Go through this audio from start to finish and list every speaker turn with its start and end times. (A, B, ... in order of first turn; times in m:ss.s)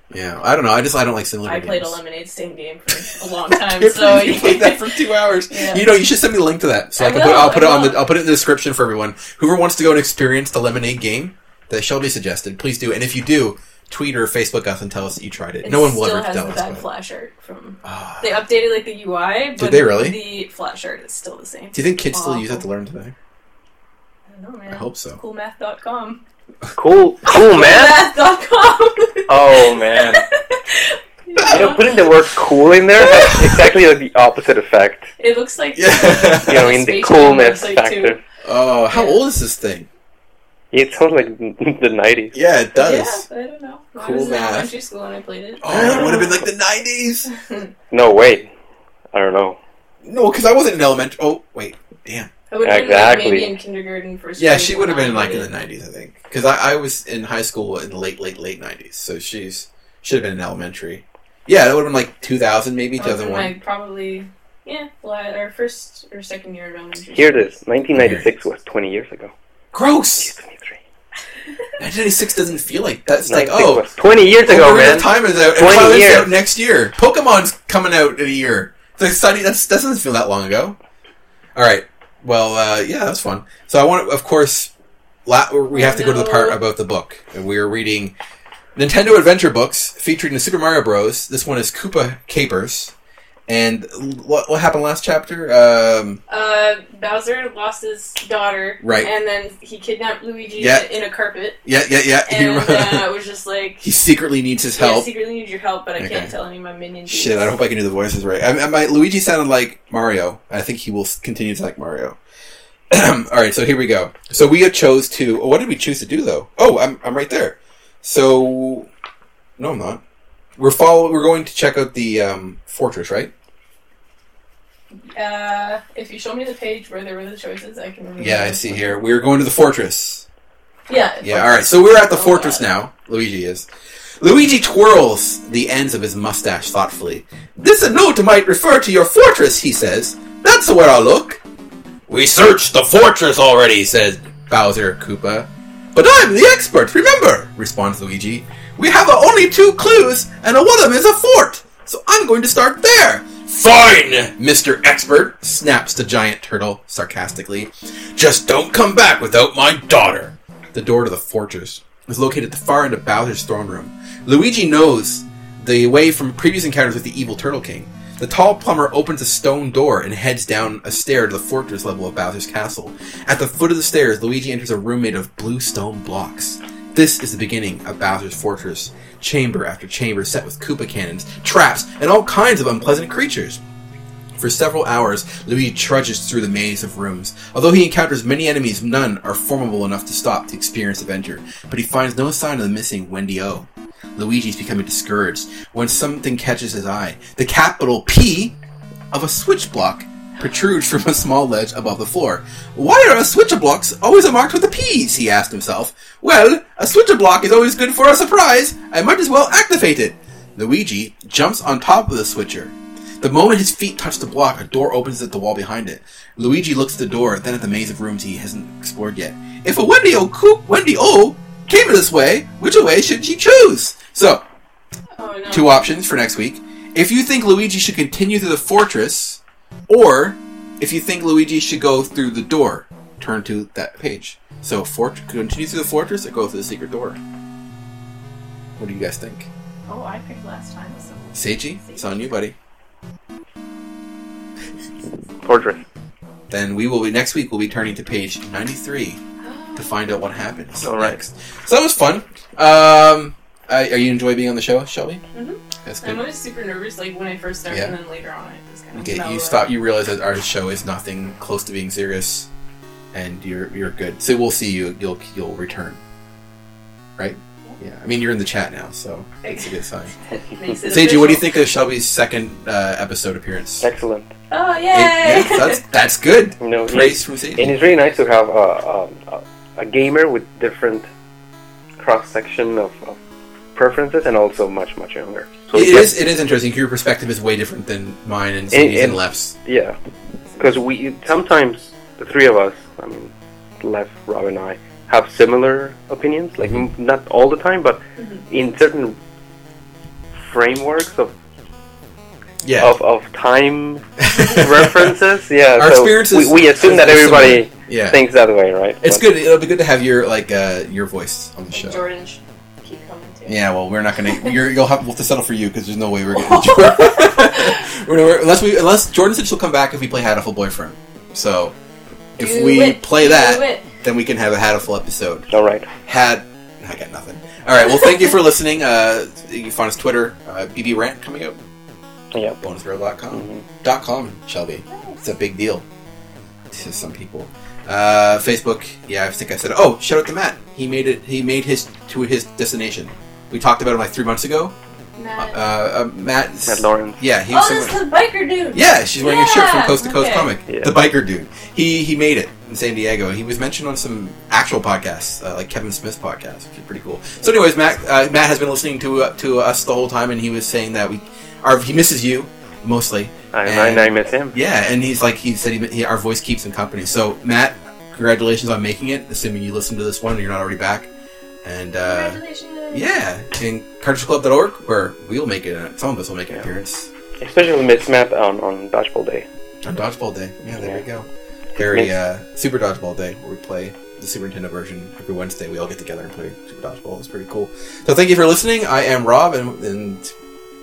0:00.1-0:02.0 A
0:01.4-0:05.0 B
0:03.5-0:16.8 A
0:05.5-0:05.9 B
0:07.0-0:08.1 B
0:15.6-0:22.6 B
0:17.8-0:18.4 A
0:19.6-0:20.2 A
0:21.7-0:23.2 A
0:24.3-0:26.2 B
0:24.7-0:25.2 A
0:26.8-0:28.1 C
0:27.3-0:32.0 B
0:29.3-0:30.2 C
0:31.5-0:35.1 C
0:33.0-0:33.5 B
0:35.2-0:38.2 B
0:35.8-0:36.7 A
0:36.4-0:38.2 C
0:38.4-0:39.9 A
0:38.9-0:39.2 B
0:40.7-0:42.3 C
0:42.3-0:43.2 A
0:42.8-0:46.4 B
0:44.0-0:44.7 A
0:45.6-0:47.3 A
0:45.7-0:46.2 C
0:47.3-0:47.7 B
0:47.9-0:48.5 C
0:49.1-0:49.6 C
0:50.0-0:52.3 A
0:52.5-0:55.5 B
0:52.6-0:53.6 C
0:54.4-1:03.5 A
1:03.0-1:07.6 B
1:07.1-1:09.3 C
1:07.9-1:08.3 A
1:09.7-1:10.4 A
1:10.2-1:10.8 C
1:11.8-1:13.9 A
1:13.1-1:16.4 C
1:14.4-1:20.8 A
1:21.6-1:24.7 A
1:25.3-1:28.2 A
1:25.7-1:26.6 B
1:28.8-1:32.9 A
1:33.5-1:36.2 A
1:36.3-1:41.6 B
1:38.8-1:39.1 A
1:40.6-1:40.9 A
1:41.6-1:43.2 A
1:42.3-1:43.9 B
1:43.8-1:45.1 A
1:44.8-1:47.5 B
1:46.0-1:46.3 A
1:47.1-1:52.2 A
1:52.9-1:58.9 A
1:59.6-2:00.0 A
2:00.6-2:03.3 A
2:05.1-2:09.0 B
2:08.2-2:10.3 A
2:10.9-2:12.6 B
2:11.2-2:13.7 A
2:14.2-2:21.4 A
2:22.1-3:03.6 A
3:04.4-3:18.6 A
3:19.1-3:44.4 A
3:45.2-3:45.8 B
3:45.5-3:57.2 A
3:58.8-3:59.5 A
3:59.9-4:02.3 B
4:01.3-4:02.6 A
4:05.4-4:05.8 C
4:06.5-4:09.2 A
4:09.4-4:10.0 B
4:09.8-4:15.2 A
4:10.8-4:11.2 C
4:15.3-4:19.7 B
4:15.8-4:16.2 A
4:17.7-4:18.0 A
4:19.0-4:22.5 A
4:23.1-4:26.0 A
4:27.2-4:30.1 A
4:29.4-4:29.8 B
4:30.3-4:31.5 B
4:30.9-4:33.9 A
4:33.8-4:34.3 C
4:34.5-4:35.8 B
4:34.9-4:37.8 A
4:36.6-4:41.1 C
4:42.0-4:43.2 C
4:43.8-4:46.2 C
4:45.7-4:49.6 A
4:48.7-4:50.0 C
4:50.6-4:59.2 C
5:00.3-5:01.3 C
5:02.6-5:03.0 A
5:02.8-5:09.2 C
5:04.2-5:05.1 A
5:04.2-5:04.6 B
5:05.8-5:08.2 A
5:09.0-5:12.0 A
5:11.7-5:13.6 B
5:13.5-5:21.8 A
5:16.3-5:17.8 B
5:22.4-5:31.6 A
5:22.4-5:23.9 B
5:25.5-5:25.9 C
5:32.3-5:32.6 C
5:32.6-5:35.8 A
5:33.3-5:33.7 C
5:34.9-5:35.2 B
5:36.7-5:44.8 A
5:45.2-5:45.6 B
5:45.4-5:48.0 A
5:46.7-5:47.3 C
5:47.5-5:50.5 B
5:48.7-6:11.1 A
5:50.7-5:50.9 C
6:03.5-6:04.6 C
6:11.6-6:17.1 A
6:12.0-6:13.1 B
6:17.4-6:19.5 C
6:19.8-6:30.3 A
6:20.7-6:21.0 C
6:21.8-6:22.1 C